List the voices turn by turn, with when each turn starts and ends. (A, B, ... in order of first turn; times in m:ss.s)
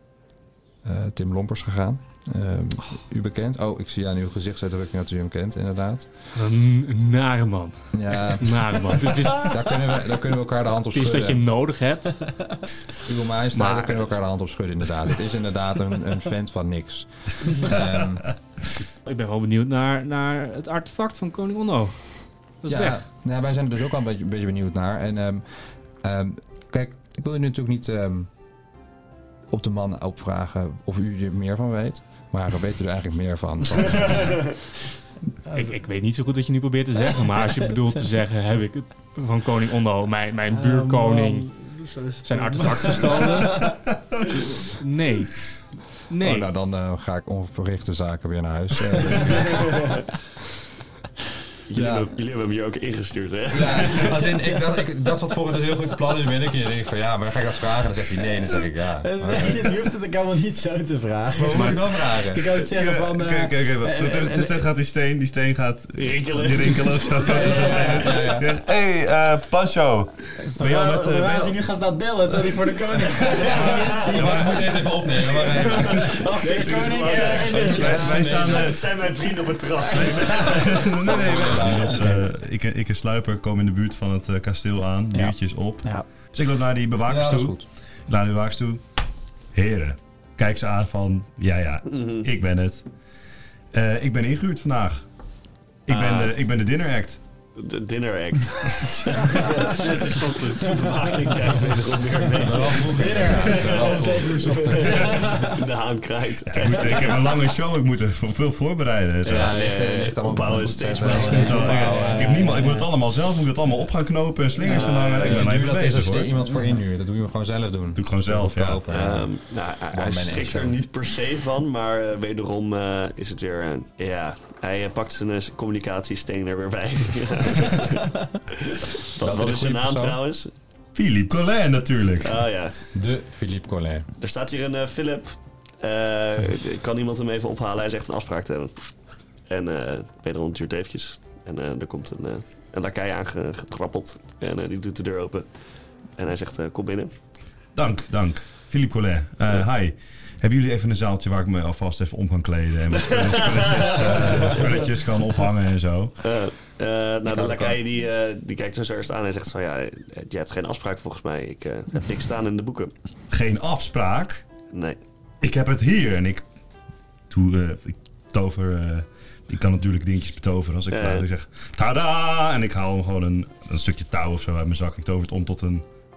0:00.8-0:06.1 A
0:06.3-0:10.0 B
0:07.9-0:11.4 A
0:10.9-0:12.7 B
0:13.0-0:18.4 A
0:13.5-0:14.1 B
0:19.0-0:23.0 B
0:22.7-0:25.4 A
0:26.0-0:28.3 A
0:29.5-0:34.6 A
0:35.5-0:35.7 C
0:35.5-0:41.6 B
0:40.5-0:43.8 C
0:42.2-0:43.7 B
0:44.4-0:45.5 B
0:46.1-0:46.5 B
0:46.2-0:49.9 A
0:51.7-0:54.3 D
0:51.8-0:52.1 A
0:53.5-0:59.7 A
0:59.0-1:04.7 C
1:01.3-1:02.5 A
1:02.7-1:11.6 E
1:06.0-1:08.3 D
1:07.3-1:08.3 C
1:07.5-1:08.5 A
1:10.4-1:18.7 C
1:13.4-1:16.2 A
1:15.9-1:22.3 D
1:16.7-1:18.9 E
1:19.9-1:28.8 E
1:21.0-1:22.3 A
1:25.1-1:26.1 C
1:27.0-1:27.7 A
1:29.5-1:32.8 E
1:31.9-1:32.3 D
1:33.7-1:35.0 E
1:35.9-1:37.2 E
1:35.9-1:36.3 D
1:37.6-1:47.5 D
1:39.2-1:40.1 C
1:39.6-1:40.8 B
1:42.4-1:45.3 A
1:42.6-1:45.6 C
1:44.8-1:45.4 E
1:46.5-1:49.6 E
1:49.2-1:52.8 D
1:49.3-1:52.6 A
1:51.0-1:56.3 E
1:51.4-1:52.7 C
1:51.6-1:52.0 B
1:54.6-1:55.5 D
1:55.2-2:00.8 A
1:58.0-1:58.8 E
1:58.9-2:10.5 D
2:09.2-2:10.2 A
2:11.0-2:12.4 E
2:12.2-2:12.8 D
2:12.9-2:14.1 A
2:14.2-2:18.9 D
2:19.5-2:25.5 D
2:26.2-2:27.1 D
2:27.8-2:36.2 E
2:33.0-2:34.8 D
2:36.2-2:42.9 D
2:37.3-2:37.8 E
2:43.3-2:44.4 E
2:44.7-2:45.0 D
2:45.4-2:46.4 E
2:47.3-2:55.8 E
2:50.9-2:51.3 D